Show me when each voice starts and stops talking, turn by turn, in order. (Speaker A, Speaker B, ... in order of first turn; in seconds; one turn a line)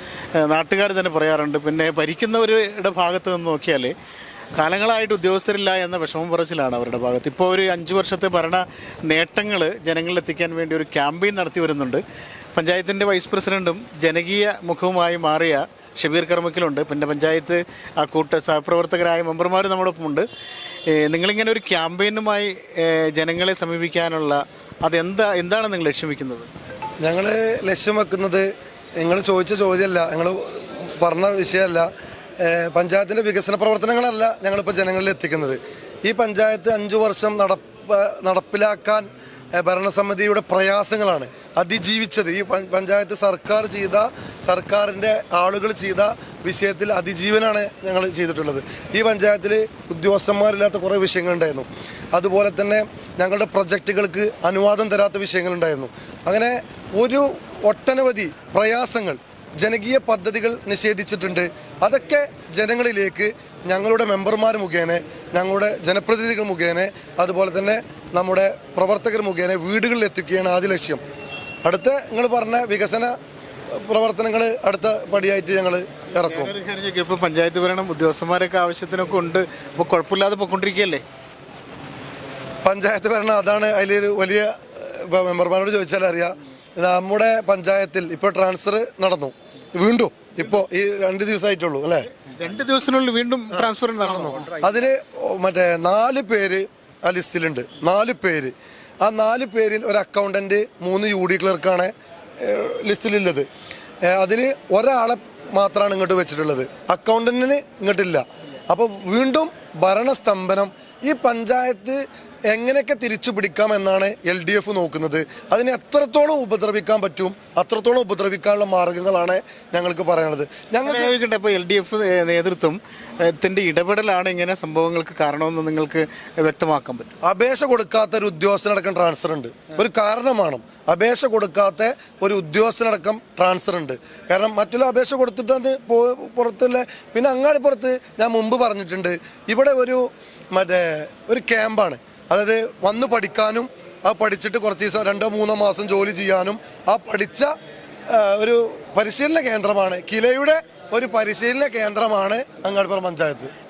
Speaker A: 0.4-3.9
Speaker A: 4.5-12.0
Speaker A: 12.5-20.3
Speaker A: 20.9-26.5
Speaker B: 27.0-31.9
Speaker B: 32.4-71.0
Speaker B: 71.6-73.2
Speaker B: 73.7-76.5
Speaker A: 76.3-81.0
Speaker B: 82.6-92.0
Speaker A: 92.3-94.5
Speaker B: 93.6-103.5
Speaker B: 104.1-121.1
Speaker A: 120.8-127.1
Speaker B: 127.2-147.5
Speaker B: 148.1-153.5